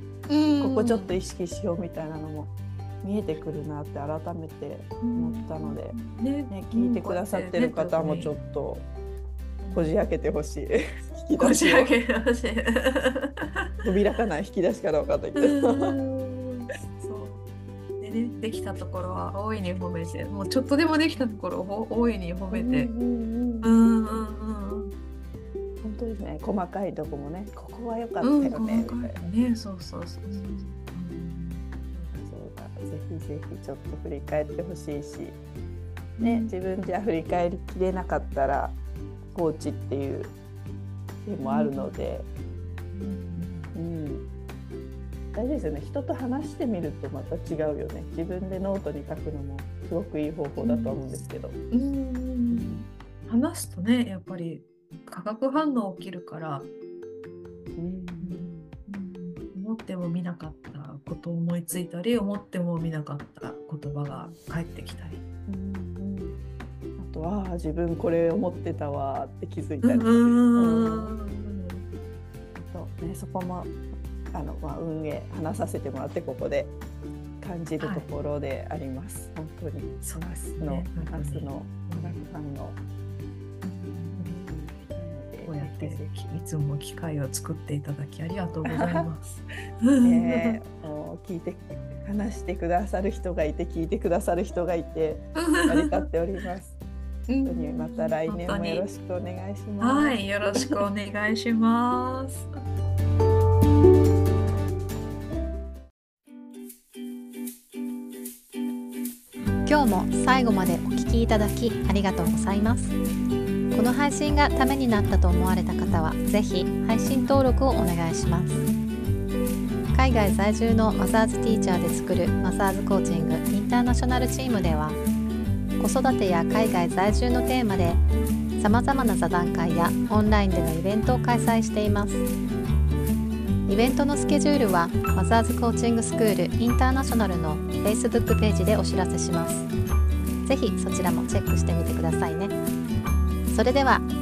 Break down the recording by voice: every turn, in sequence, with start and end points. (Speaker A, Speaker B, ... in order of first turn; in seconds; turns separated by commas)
Speaker A: 0.3-1.2, Speaker B: 0.6-8.8, Speaker A: 5.0-8.4, Speaker A: 9.6-9.9, Speaker B: 9.7-11.9, Speaker A: 11.4-13.7, Speaker B: 13.8-16.0, Speaker A: 15.4-17.4, Speaker A: 18.0-22.9, Speaker B: 22.5-24.2, Speaker A: 23.6-24.9, Speaker B: 25.8-29.2, Speaker A: 28.2-31.6, Speaker B: 31.9-35.4, Speaker A: 36.2-36.5, Speaker B: 36.2-38.8, Speaker B: 39.3-40.3, Speaker B: 41.2-42.3, Speaker A: 41.4-42.0, Speaker A: 42.9-43.7, Speaker B: 43.7-44.2, Speaker B: 45.3-51.6, Speaker A: 50.6-51.0, Speaker A: 51.7-56.7, Speaker B: 52.5-52.9, Speaker B: 57.8-58.7, Speaker A: 58.2-65.2, Speaker B: 64.0-64.4, Speaker B: 65.5-66.4, Speaker B: 67.0-71.1, Speaker A: 69.8-71.9, Speaker B: 72.5-73.7, Speaker B: 74.3-76.8, Speaker B: 77.4-82.8, Speaker A: 77.8-78.1, Speaker A: 80.0-82.2, Speaker A: 83.6-84.4, Speaker B: 84.1-86.1, Speaker A: 85.4-90.6, Speaker B: 88.7-89.1, Speaker B: 90.0-96.8, Speaker A: 95.3-96.0, Speaker A: 97.3-98.9, Speaker B: 97.4-100.7, Speaker A: 99.8-102.5, Speaker C: 109.7-112.9, Speaker C: 113.7-118.6, Speaker C: 119.9-125.0, Speaker C: 125.8-128.0, Speaker C: 128.6-132.2, Speaker C: 133.7-139.7, Speaker C: 140.4-142.5, Speaker C: 143.5-144.1